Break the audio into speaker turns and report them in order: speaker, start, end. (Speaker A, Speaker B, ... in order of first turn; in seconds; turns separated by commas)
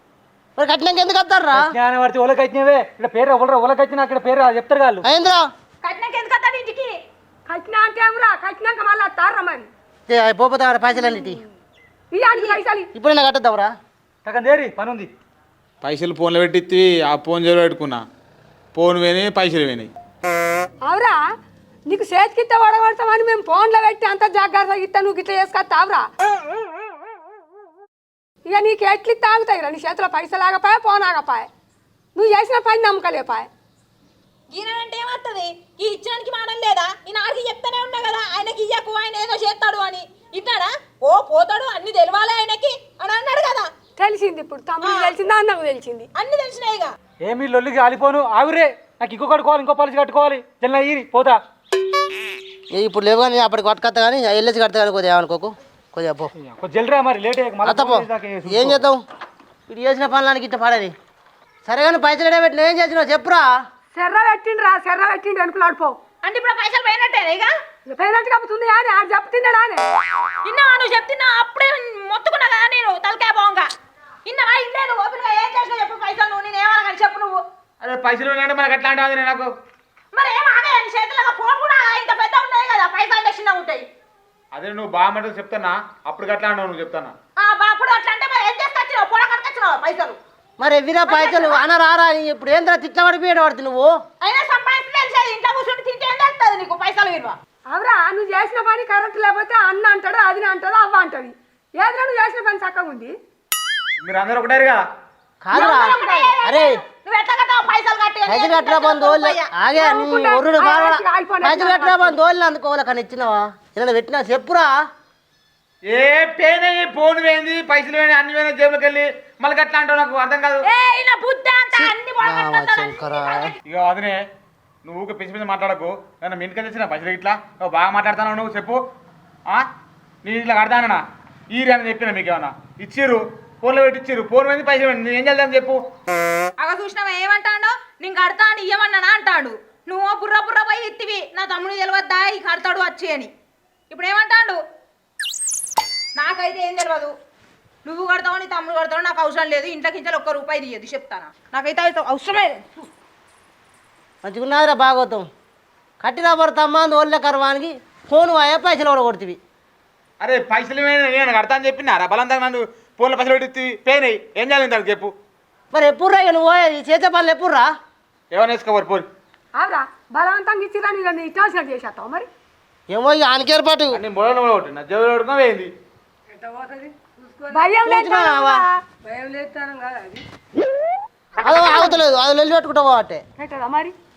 Speaker A: 0.6-1.7, Speaker B: 1.5-5.0, Speaker A: 5.0-5.4, Speaker C: 5.8-6.9, Speaker D: 7.5-9.7, Speaker A: 10.1-11.4, Speaker D: 12.1-12.9, Speaker C: 12.3-12.6, Speaker A: 12.9-13.7, Speaker B: 14.3-15.1, Speaker E: 15.8-18.0, Speaker E: 18.7-19.9, Speaker D: 20.9-21.2, Speaker D: 21.9-26.1, Speaker D: 28.5-31.5, Speaker D: 32.1-33.5, Speaker C: 34.5-43.7, Speaker D: 44.0-46.1, Speaker C: 44.8-45.1, Speaker C: 46.1-46.9, Speaker B: 47.2-51.4, Speaker A: 52.7-56.3, Speaker B: 56.4-58.8, Speaker A: 57.6-59.0, Speaker A: 59.7-60.9, Speaker A: 61.7-63.5, Speaker D: 64.0-66.0, Speaker C: 66.2-67.5, Speaker D: 67.9-69.8, Speaker C: 70.4-73.7, Speaker C: 74.2-77.4, Speaker E: 77.8-79.5, Speaker C: 80.1-83.9, Speaker E: 84.5-87.1, Speaker C: 87.4-90.2, Speaker A: 90.6-93.9, Speaker C: 91.1-91.6, Speaker C: 94.2-97.4, Speaker D: 97.7-103.1, Speaker E: 104.0-104.8, Speaker A: 105.4-106.8, Speaker C: 105.5-109.5, Speaker A: 108.3-114.7, Speaker D: 109.8-112.2, Speaker E: 115.9-120.7, Speaker C: 120.6-123.6, Speaker A: 121.7-123.5, Speaker E: 123.7-124.2, Speaker E: 124.8-128.8, Speaker E: 130.2-131.0, Speaker E: 131.5-135.8, Speaker C: 136.6-143.3, Speaker C: 143.9-144.6, Speaker C: 146.2-147.1, Speaker C: 147.8-152.8, Speaker A: 154.2-155.3, Speaker A: 156.0-159.4, Speaker E: 160.2-165.1, Speaker A: 165.7-167.7, Speaker E: 168.3-169.1, Speaker D: 169.6-172.3, Speaker A: 172.9-174.0, Speaker E: 173.9-175.7, Speaker D: 176.3-180.2, Speaker A: 177.8-178.6, Speaker A: 181.4-183.2, Speaker D: 181.5-182.0, Speaker D: 183.4-183.9